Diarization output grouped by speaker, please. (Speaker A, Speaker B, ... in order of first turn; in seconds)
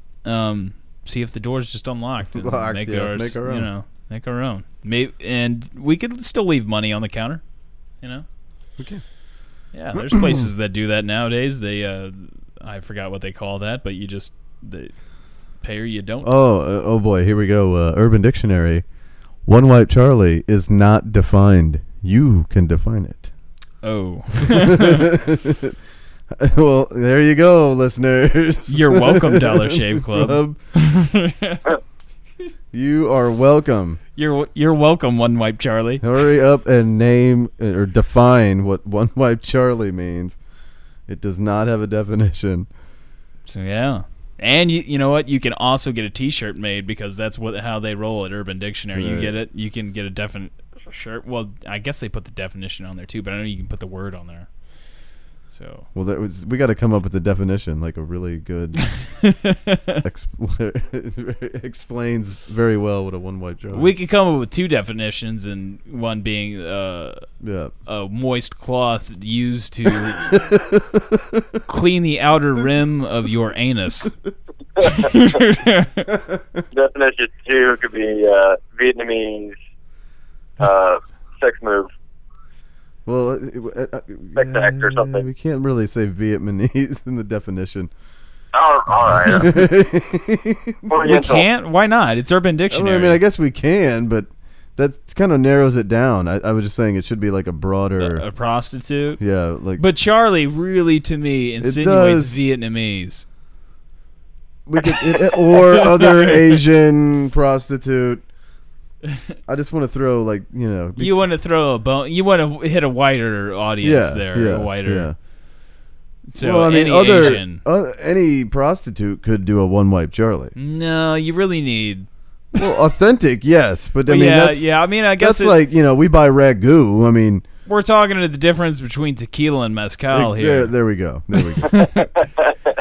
Speaker A: 0.2-7.4, 8.0-8.2, 9.7-14.9, 15.6-16.3, 23.8-25.1, 28.7-31.8, 34.1-36.0, 43.5-54.5, 55.5-55.9, 58.8-60.0, 63.7-67.2, 67.9-70.3, 71.7-74.1, 74.8-76.1, 91.0-93.2, 98.0-99.2, 99.8-103.2, 105.5-106.6, 111.0-115.1, 116.3-117.6, 120.6-122.7, 124.1-125.6, 127.7-130.7, 131.6-132.1
Speaker B: 2.3-3.7, 8.8-9.0, 10.0-10.5, 16.2-18.9, 19.5-23.3, 24.4-25.8, 26.3-30.6, 32.7-34.0, 36.0-40.4, 41.1-42.7, 48.9-49.3, 56.0-58.9, 60.0-63.9, 67.4-67.7, 70.1-71.5, 76.1-76.6, 83.1-87.9, 89.2-90.9, 92.7-98.2, 99.2-99.8, 101.6-102.4, 104.7-108.2, 109.5-111.1, 113.8-115.1, 116.4-120.5, 122.6-124.7, 125.2-127.5, 130.1-131.8
Speaker C: 76.7-79.5, 80.6-81.9, 84.4-85.2, 88.5-89.5, 90.9-91.5